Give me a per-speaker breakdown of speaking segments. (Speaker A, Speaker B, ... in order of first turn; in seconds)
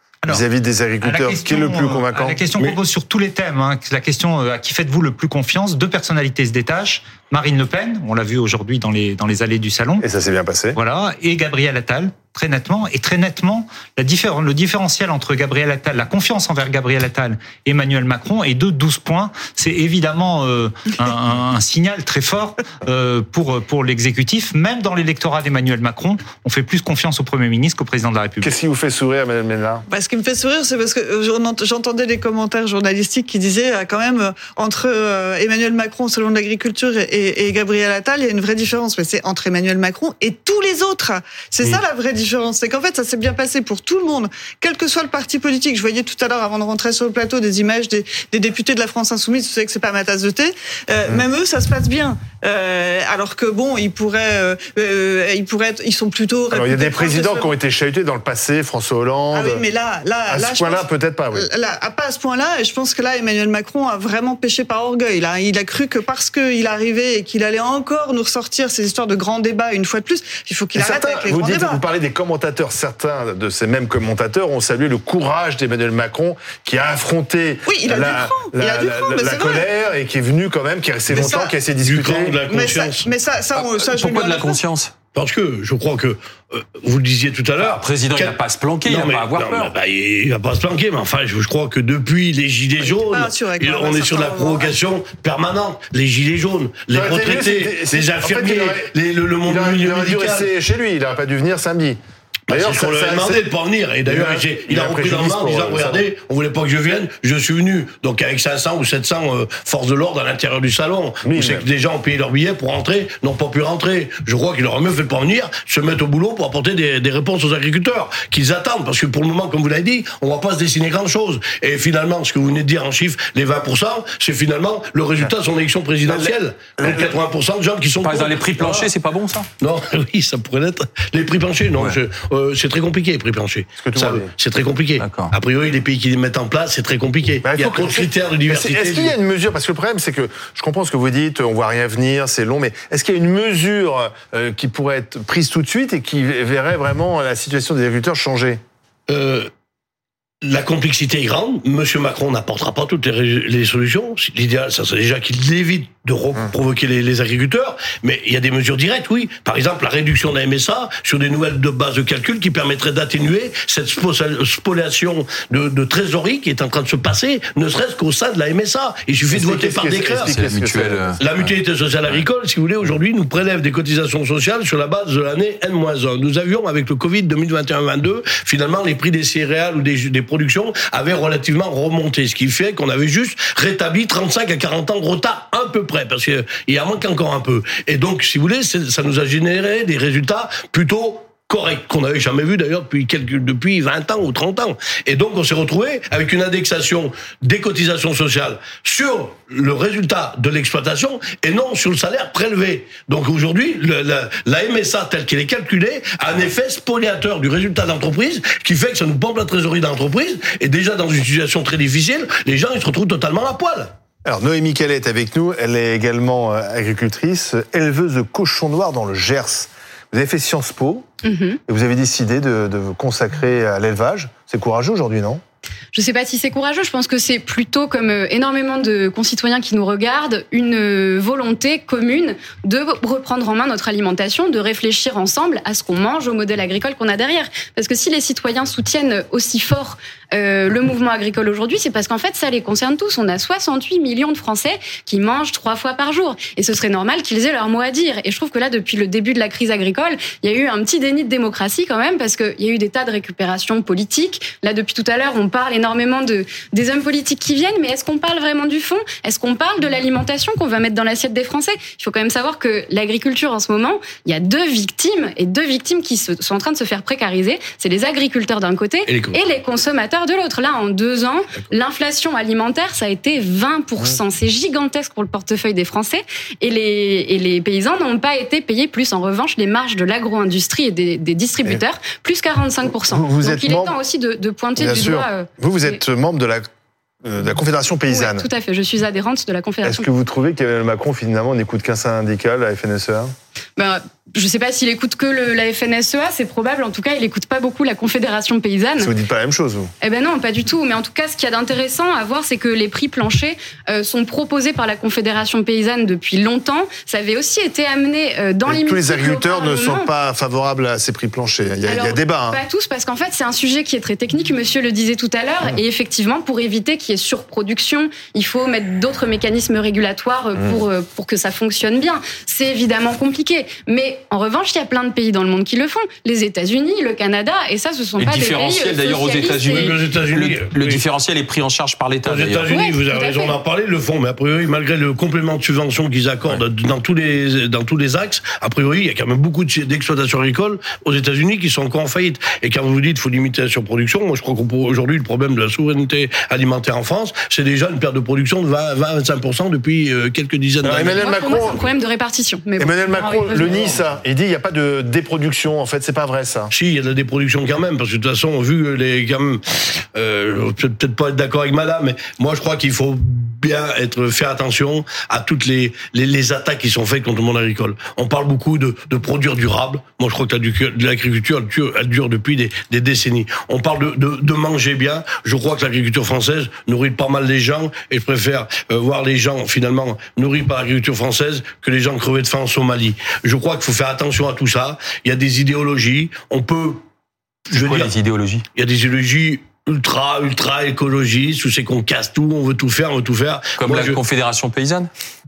Speaker A: 0.3-2.4, 10.0-10.8, 28.4-29.8, 56.5-59.6, 60.3-61.5, 70.8-82.4, 96.9-98.9, 99.4-103.4, 104.0-106.0, 111.2-111.7, 126.0-127.1, 133.8-134.3, 137.4-148.6, 169.3-171.2, 214.2-221.1, 221.7-225.4, 283.1-283.9, 284.8-286.7, 287.2-288.5, 289.8-293.3, 299.0-299.9, 308.6-312.6, 320.6-320.8, 350.8-351.8, 352.8-356.7
Speaker B: 1.0-10.0, 10.8-28.5
Speaker C: 29.9-57.5, 59.3-71.8, 77.7-79.6, 81.1-81.5, 82.4-84.6, 92.8-94.7
Speaker D: 81.1-83.1, 85.1-100.5, 102.5-128.9, 129.6-139.1, 149.1-149.5, 150.4-170.5, 171.2-213.9, 269.1-269.4, 329.7-331.0, 332.2-351.3, 353.5-354.0, 356.7-387.0, 387.7-388.1, 388.8-394.2
Speaker E: 83.5-84.9, 87.6-89.8, 128.0-129.5, 135.0-135.3, 170.2-171.5, 328.2-332.7, 387.7-388.6, 393.8-395.1
Speaker F: 221.2-221.6, 225.9-286.0, 288.1-290.1, 293.8-299.1, 300.0-310.1, 311.8-330.0, 332.7-333.6, 351.1-353.8